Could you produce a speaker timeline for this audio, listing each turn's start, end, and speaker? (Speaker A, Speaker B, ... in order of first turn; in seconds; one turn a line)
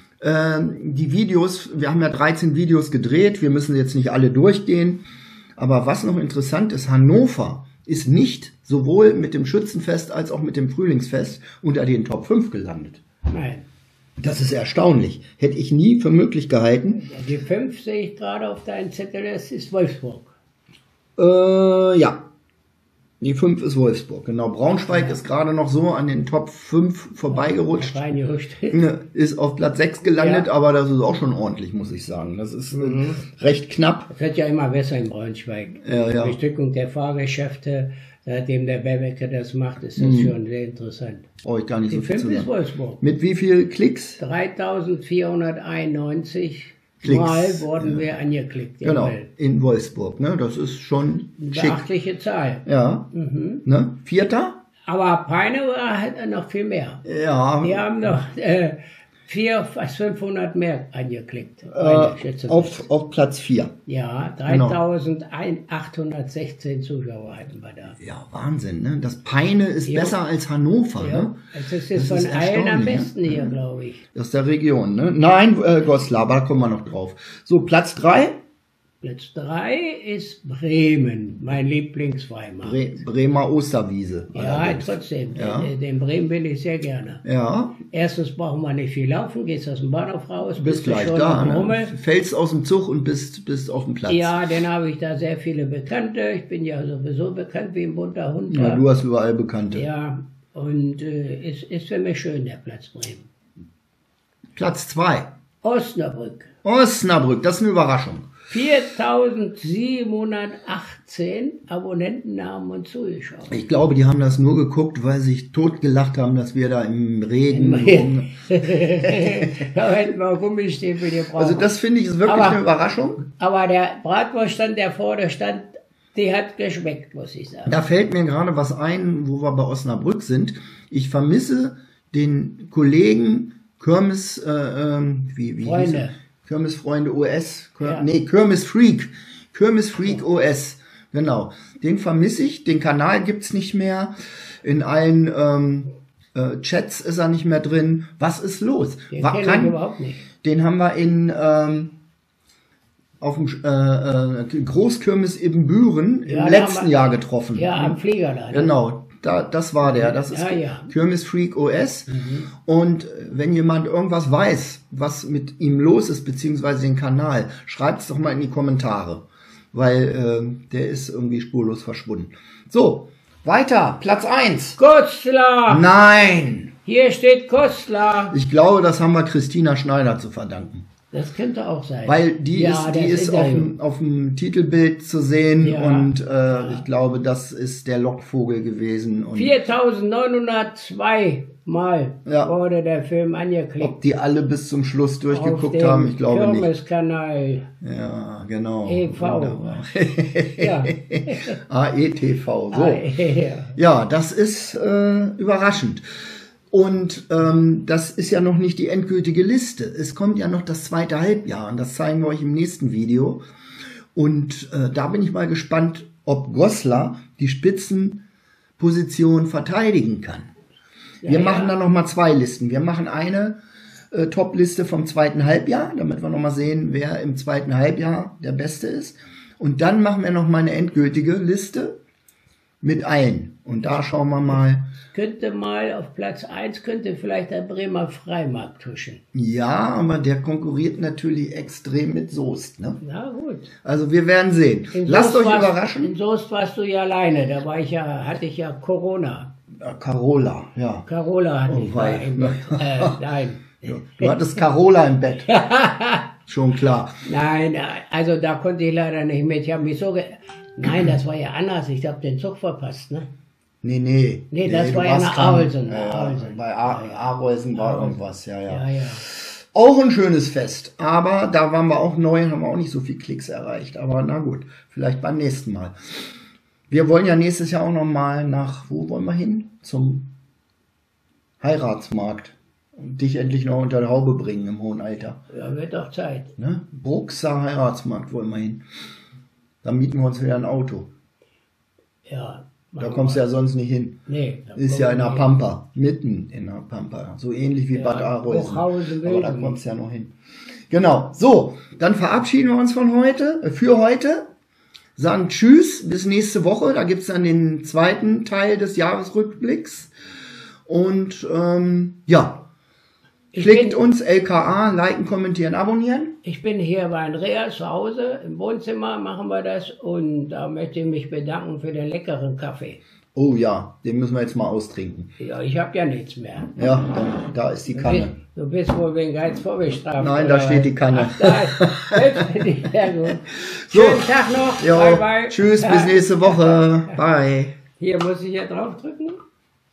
Speaker A: 0.2-5.0
Speaker A: 5.6-13.0
Speaker B: 13.3-13.6
Speaker A: 14.2-17.1
Speaker B: 17.0-20.3
Speaker A: 21.2-22.2
Speaker A: 23.2-28.0
Speaker B: 27.3-28.8
Speaker A: 28.7-34.1
Speaker B: 30.2-30.5
Speaker B: 32.7-33.2
Speaker B: 34.1-41.2
Speaker A: 35.8-36.4
Speaker A: 40.0-40.4
Speaker A: 41.4-44.2
Speaker B: 41.9-43.0
Speaker B: 44.2-49.3
Speaker A: 47.0-48.0
Speaker A: 48.8-51.9
Speaker B: 51.4-53.6
Speaker A: 52.6-53.1
Speaker A: 53.6-54.6
Speaker B: 54.9-57.0
Speaker A: 57.0-58.1
Speaker B: 57.6-62.8
Speaker A: 61.7-63.8
Speaker B: 63.9-68.0
Speaker A: 64.5-64.8
Speaker A: 68.0-71.4
Speaker B: 69.8-70.2
Speaker B: 71.0-74.0
Speaker A: 71.9-73.6
Speaker A: 74.1-78.4
Speaker B: 79.0-82.8
Speaker A: 82.6-85.7
Speaker B: 84.3-87.2
Speaker A: 87.2-87.8
Speaker B: 87.9-91.9
Speaker A: 90.6-94.3
Speaker B: 94.1-98.8
Speaker A: 98.5-99.8
Speaker B: 99.7-103.3
Speaker A: 104.5-105.3
Speaker B: 105.6-106.5
Speaker A: 106.6-108.3
Speaker B: 108.5-113.6
Speaker A: 113.5-119.7
Speaker B: 117.5-121.7
Speaker A: 121.3-123.2
Speaker B: 122.2-122.6
Speaker B: 123.4-127.7
Speaker A: 127.7-149.8
Speaker B: 135.6-136.1
Speaker B: 149.1-150.2
Speaker A: 150.4-151.9
Speaker A: 153.2-174.8
Speaker B: 156.2-158.7
Speaker B: 159.8-160.9
Speaker B: 162.1-162.5
Speaker B: 174.8-175.8
Speaker A: 175.7-176.7
Speaker B: 176.8-178.3
Speaker A: 178.3-180.9
Speaker B: 181.1-183.7
Speaker A: 182.0-189.6
Speaker B: 185.6-186.8
Speaker B: 189.3-193.9
Speaker A: 192.2-192.5
Speaker A: 193.8-196.7
Speaker B: 195.3-197.7
Speaker A: 197.8-203.1
Speaker B: 198.8-199.7
Speaker B: 200.6-201.5
Speaker B: 202.7-203.8
Speaker A: 203.8-206.0
Speaker A: 206.7-213.4
Speaker A: 214.1-218.2
Speaker A: 218.8-220.5
Speaker B: 221.2-221.7
Speaker A: 221.2-223.6
Speaker A: 224.1-232.0
Speaker A: 232.8-234.9
Speaker B: 235.1-239.2
Speaker A: 239.3-243.0
Speaker B: 243.0-243.7
Speaker A: 243.8-246.1
Speaker B: 244.9-249.5
Speaker A: 249.8-251.0
Speaker B: 251.1-254.4
Speaker A: 251.7-253.2
Speaker A: 253.8-255.5
Speaker B: 255.5-256.2
Speaker A: 256.5-257.2
Speaker B: 257.2-263.3
Speaker A: 263.8-275.9
Speaker B: 264.5-267.2
Speaker B: 267.8-268.1
Speaker B: 268.7-269.2
Speaker A: 276.9-280.3
Speaker A: 281.6-285.4
Speaker B: 285.5-286.5
Speaker A: 286.6-288.8
Speaker A: 289.8-291.1
Speaker B: 292.3-293.4
Speaker A: 293.0-294.2
Speaker B: 294.3-295.5
Speaker A: 294.8-300.3
Speaker B: 297.9-299.8
Speaker A: 300.9-304.5
Speaker A: 305.2-310.1
Speaker A: 310.9-312.6
Speaker B: 313.5-314.0
Speaker A: 313.6-316.4
Speaker B: 316.4-323.0
Speaker A: 323.3-325.3
Speaker B: 325.4-326.7
Speaker A: 326.8-328.3
Speaker B: 327.9-336.8
Speaker A: 330.2-332.6
Speaker A: 333.3-337.8
Speaker B: 338.0-339.4